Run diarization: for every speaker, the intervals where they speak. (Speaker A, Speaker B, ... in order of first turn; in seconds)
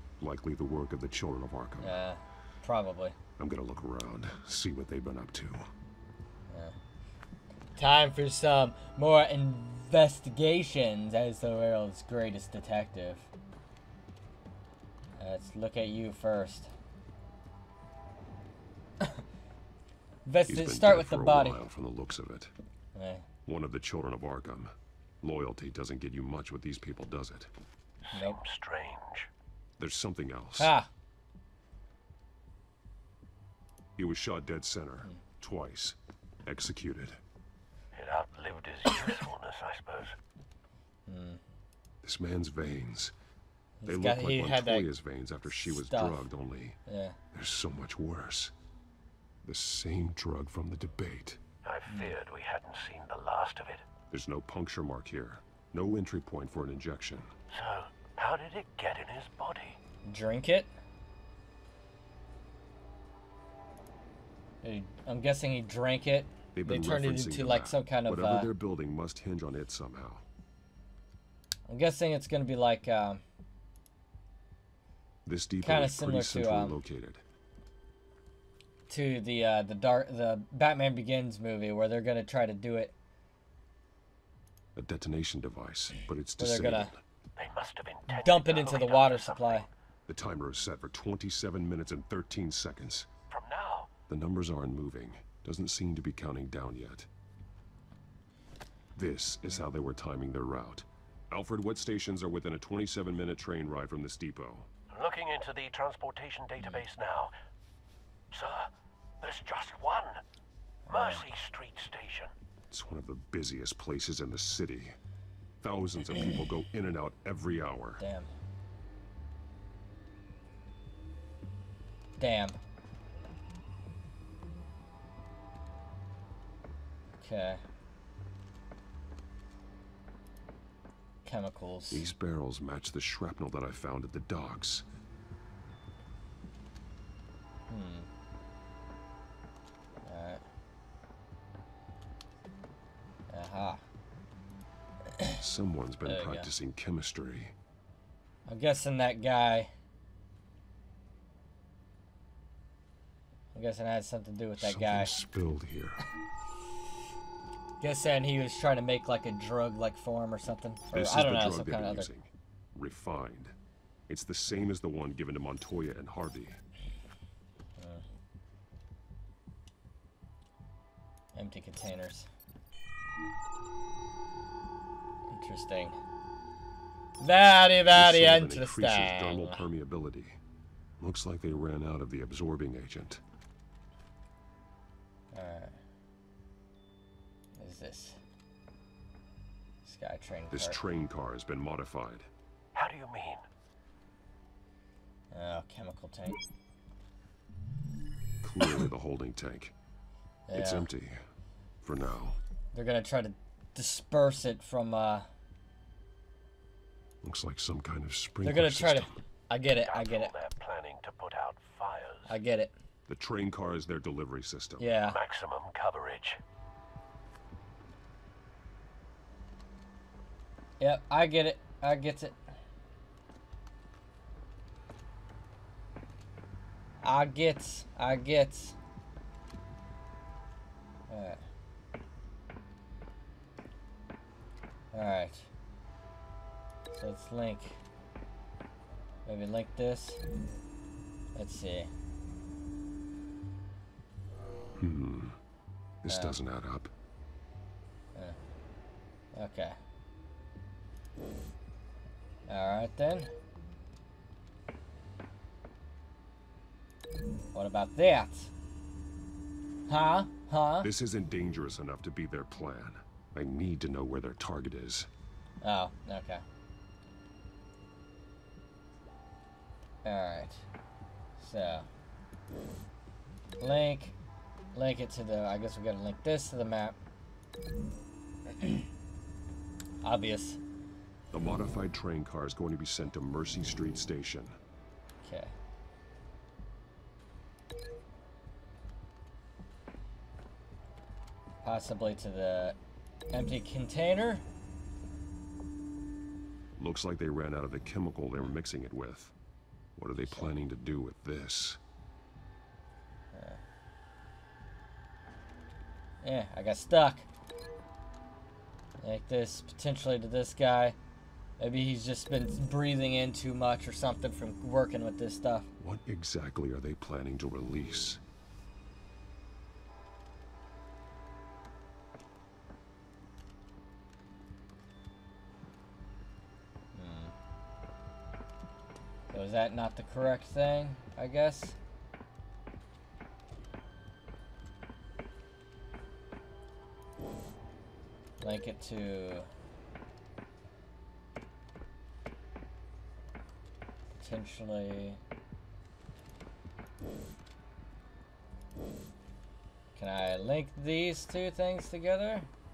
Speaker A: 0.2-2.0, 3.4-5.7, 20.5-22.5, 23.4-27.5, 29.8-30.7, 34.0-37.2, 42.0-43.1, 43.9-46.8, 47.3-48.5, 49.4-51.4, 54.1-57.3, 66.5-70.2, 75.2-77.2, 84.8-87.0, 90.1-93.1, 94.1-97.1, 98.9-104.7, 112.7-115.0, 115.6-118.0, 131.9-134.8, 145.4-147.5, 154.6-156.1, 160.9-163.6, 164.1-166.6, 177.9-180.4, 181.0-183.2, 190.5-192.3, 198.4-199.7, 200.5-201.2, 201.8-202.4, 207.2-209.2, 213.1-214.9, 244.8-245.3, 246.0-246.9, 260.8-265.1, 281.3-284.6, 296.8-299.3, 299.9-301.8, 315.8-318.2
Speaker B: 1.8-3.2, 6.5-6.8, 7.8-13.3, 15.2-16.7, 20.2-21.6, 22.9-23.2, 28.1-28.4, 30.6-30.9, 41.1-41.4, 43.8-44.9, 45.6-46.3, 46.9-47.2, 51.9-52.1, 60.1-60.7, 64.6-68.5, 71.7-73.2, 75.6-76.8, 78.9-82.9, 86.4-86.9, 88.1-89.7, 110.9-111.2, 118.0-118.3, 122.2-122.6, 127.2-127.6, 131.2-132.1, 137.7-138.1, 140.1-140.4, 143.3-143.8, 146.1-146.5, 148.5-149.7, 153.5-155.2, 157.8-162.1, 171.3-172.3, 175.3-176.0, 177.2-179.6, 185.3-185.8, 187.6-188.2, 189.8-190.8, 195.3-196.4, 200.5-200.9, 202.7-205.3, 208.4-210.3, 212.3-212.7, 214.8-215.2, 220.8-222.4, 227.0-228.8, 231.1-231.4, 234.9-235.5, 236.9-237.8, 239.2-240.2, 241.3-241.9, 246.1-246.4, 249.3-249.8, 252.5-253.3, 257.5-258.5, 259.9-260.9, 265.6-266.4, 270.0-270.6, 271.4-271.9, 273.6-274.1, 274.7-277.0, 280.0-280.6, 285.2-285.5, 291.6-292.8, 293.3-294.4, 300.2-300.5, 303.3-303.6, 306.2-307.3, 309.0-310.9, 311.6-315.7, 326.9-327.3, 329.3-331.8, 338.4-339.5, 344.2-345.2, 349.9-352.5
Speaker C: 28.1-29.3, 37.9-40.1, 51.6-53.9, 57.5-59.8, 87.4-89.7, 93.3-93.9, 104.9-107.3, 108.3-108.7, 109.2-110.2, 110.9-112.3, 192.7-193.4, 209.8-212.4, 215.0-216.4